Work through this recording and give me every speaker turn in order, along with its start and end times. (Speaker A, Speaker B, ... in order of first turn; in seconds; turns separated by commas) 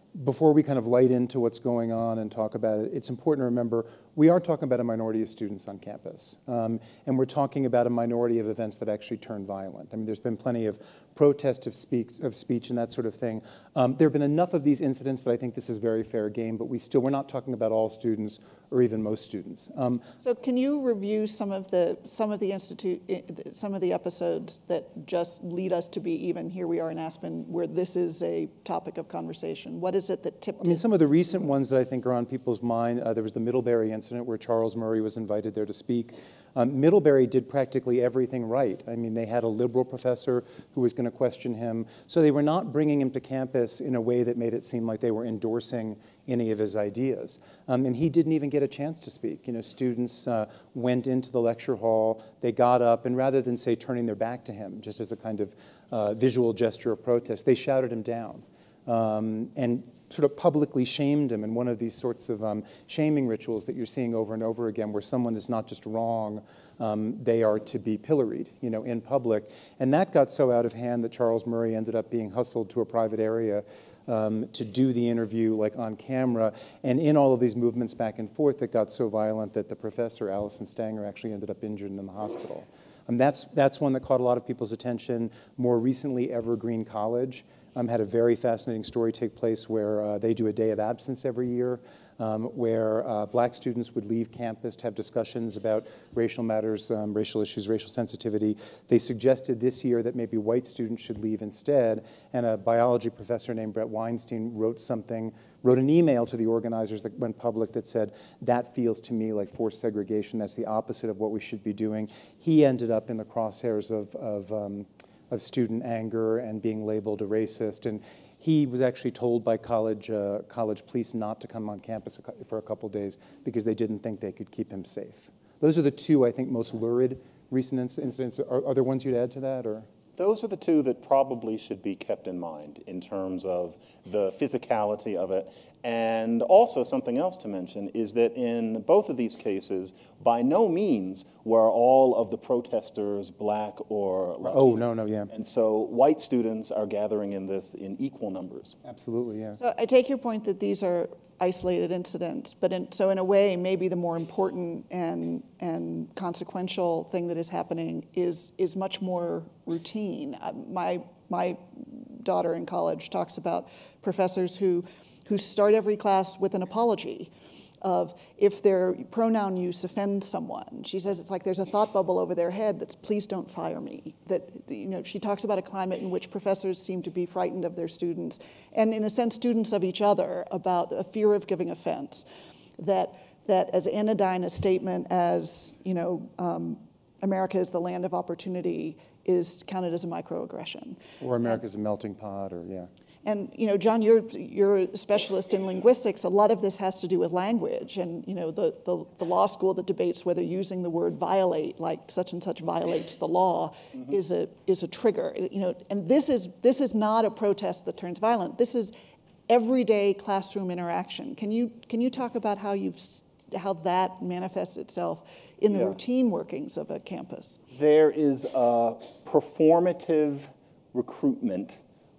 Speaker A: 0.1-20.1, Speaker B: 20.2-30.8, Speaker A: 30.6-129.9, Speaker C: 130.2-144.8, Speaker A: 144.5-145.3, Speaker C: 145.3-148.8, Speaker A: 148.8-149.6, Speaker B: 149.6-182.2, Speaker B: 182.8-191.6, Speaker A: 191.2-192.9, Speaker B: 193.2-208.9, Speaker B: 209.5-217.6, Speaker C: 215.7-216.0, Speaker C: 217.7-221.8